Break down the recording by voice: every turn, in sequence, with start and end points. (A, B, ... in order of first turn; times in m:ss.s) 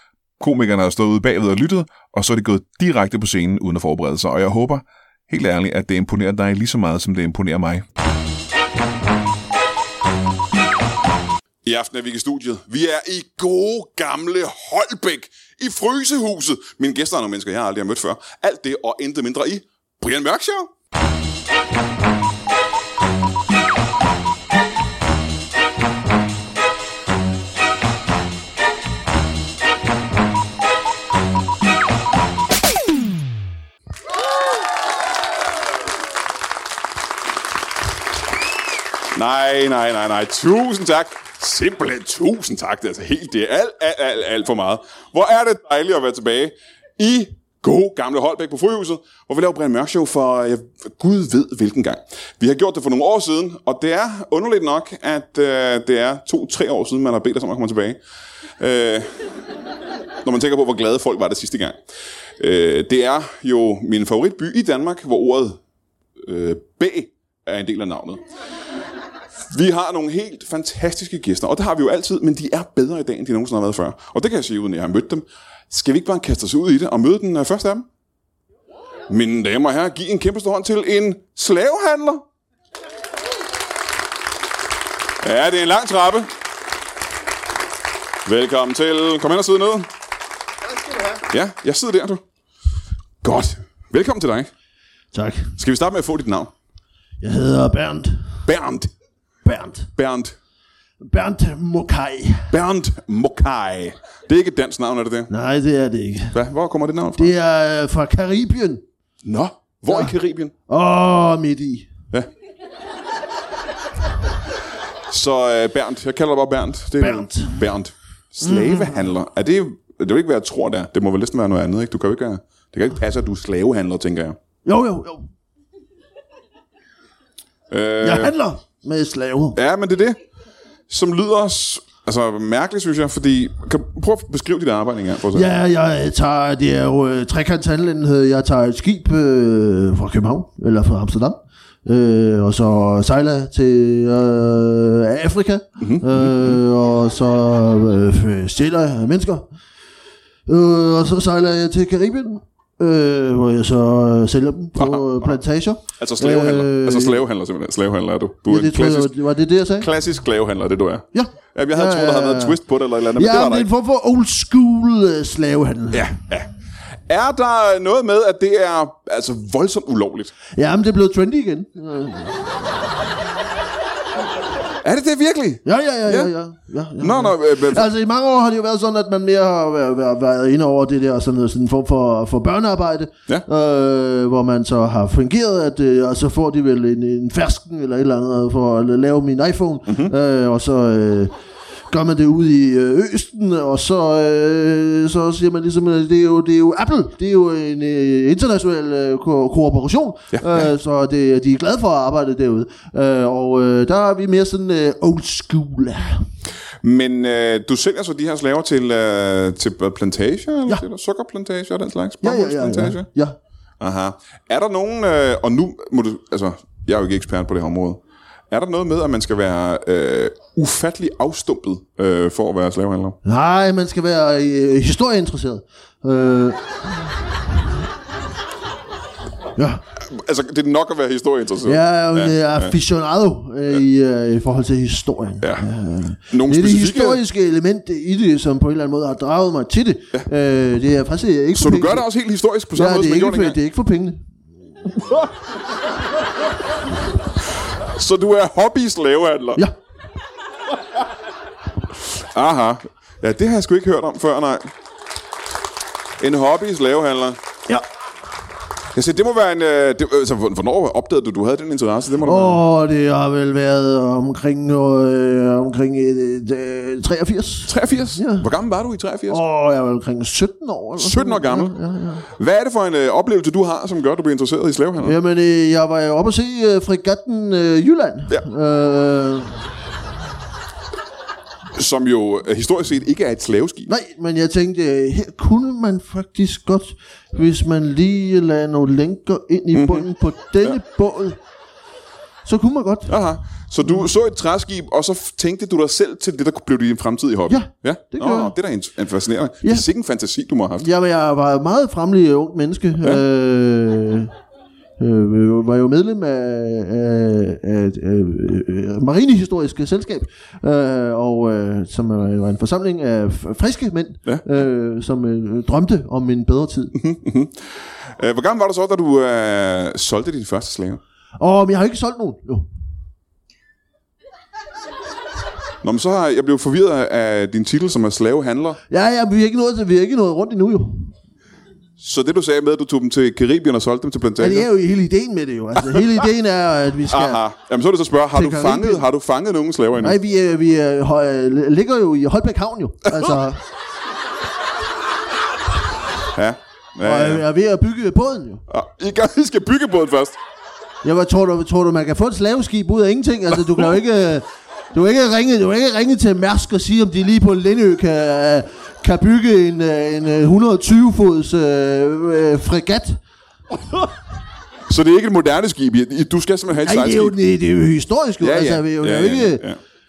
0:00.4-0:07.8 A
0:11.6-0:20.7 A
0:39.1-0:58.0 A
0:58.6-0:59.2 A
1:00.2-1:01.8 A
1:02.4-1:05.6 A
1:06.2-1:08.2 A
1:09.5-1:17.9 A
1:19.1-1:22.2 A
1:25.2-1:26.3 A
1:28.2-1:29.9 A
1:31.3-1:32.2 A
1:33.2-1:34.5 A
1:35.1-1:35.6 B
1:35.6-1:36.5 A
1:37.2-1:38.3 B
1:38.4-1:38.9 A
1:39.4-1:39.9 B
1:40.0-1:40.4 A
1:41.0-1:42.5 B
1:42.5-1:45.3 A
1:45.3-1:46.4 B
1:46.3-1:47.3 A
1:47.2-1:48.8 B
1:49.2-1:50.5 A
1:49.9-1:50.1 B
1:50.7-1:51.9 B
1:55.1-2:04.4 A
1:57.0-1:57.6 B
1:58.4-1:59.1 B
2:04.6-2:05.3 B
2:07.7-2:08.3 A
2:08.0-2:09.6 B
2:09.6-2:10.2 A
2:10.9-2:15.5 A
2:15.3-2:29.5 B
2:25.8-2:26.6 A
2:30.5-2:37.2 B
2:34.8-2:35.4 A
2:36.0-2:39.1 A
2:38.5-2:39.9 B
2:39.8-2:43.7 A
2:41.1-2:42.6 B
2:43.2-2:46.0 B
2:45.9-2:46.5 A
2:47.1-2:50.3 A
2:50.6-2:52.9 B
2:54.8-2:56.3 A
2:55.6-3:11.3 B
2:57.0-2:57.9 A
3:09.9-3:10.1 A
3:11.9-3:26.2 B
3:20.3-3:20.7 A
3:26.8-3:33.1 A
3:32.2-3:33.4 B
3:33.8-3:43.2 A
3:43.2-3:47.2 B
3:49.6-3:49.8 B
3:50.0-3:52.7 A
3:51.6-4:02.1 B
3:55.4-3:55.7 A
3:56.3-3:57.2 A
4:01.5-4:03.6 A
4:02.8-4:04.3 B
4:07.9-4:09.6 A
4:12.1-4:14.7 A
4:16.2-4:17.4 A
4:18.9-4:22.6 A
4:22.2-4:28.5 B
4:27.7-4:29.4 A
4:29.3-4:32.2 B
4:31.0-4:35.2 A
4:35.0-4:39.7 B
4:41.8-4:43.9 A
4:43.9-4:51.4 B
4:49.7-4:50.1 A
4:52.4-4:53.1 B
4:53.1-5:00.9 A
4:57.5-4:58.5 B
5:00.8-5:04.3 B
5:05.0-5:17.0 B
5:17.0-5:21.0 A
5:21.4-5:22.7 B
5:25.8-5:28.8 A
5:28.9-5:31.1 B
5:32.0-5:34.7 A
5:34.4-5:37.4 B
5:37.1-5:40.2 A
5:38.3-5:39.0 B
5:40.0-5:43.6 B
5:46.4-5:47.4 A
5:47.0-5:48.6 B
5:48.7-5:50.4 A
5:51.0-6:03.2 B
6:04.9-6:07.4 A
6:06.8-6:09.6 B
6:08.4-6:09.8 A